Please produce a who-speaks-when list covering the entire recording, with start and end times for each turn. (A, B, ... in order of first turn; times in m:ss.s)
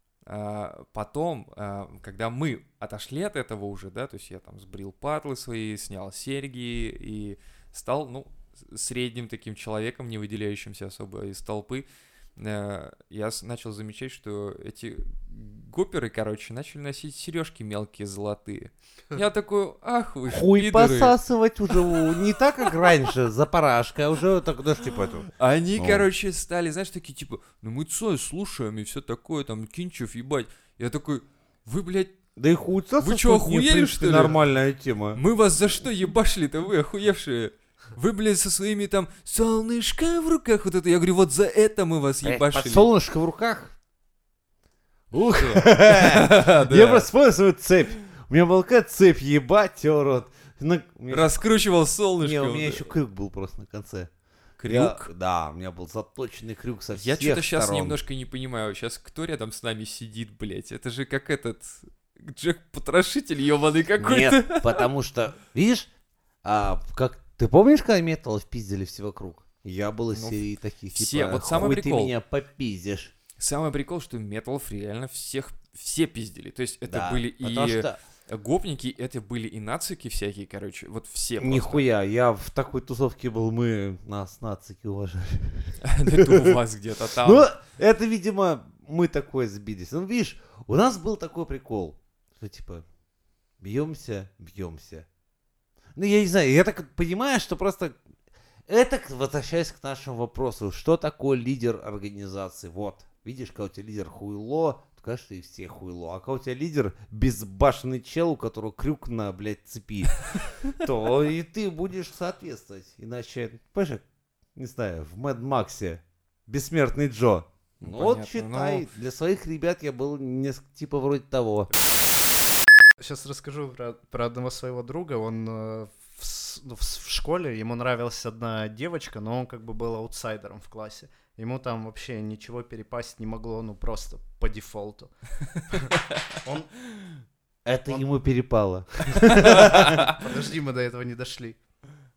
0:00.2-0:21.2 A
0:20.3-0:26.1 B
0:25.4-0:32.2 A
0:32.4-0:35.2 B
0:33.0-0:34.4 A
0:35.1-0:42.9 A
0:42.2-0:43.7 B
0:45.1-0:51.4 B
0:45.2-0:47.1 A
0:51.1-0:52.9 A
0:52.2-0:54.1 B
0:54.6-0:55.1 A
0:54.6-0:58.0 B
0:56.9-1:04.9 A
1:04.0-1:05.9 B
1:06.4-1:13.1 B
1:10.1-1:10.4 A
1:10.9-1:12.1 A
1:13.4-1:21.8 A
1:16.9-1:18.0 B
1:21.4-1:26.6 B
1:25.8-1:27.5 A
1:27.2-1:32.8 B
1:33.6-1:35.0 B
1:36.0-1:38.0 B
1:38.7-1:54.0 B
1:54.5-2:01.7 B
1:57.8-1:58.8 A
2:03.0-2:15.1 C
2:15.7-2:16.9 C
2:17.6-2:20.1 B
2:19.3-2:20.1 A
2:19.5-2:21.6 C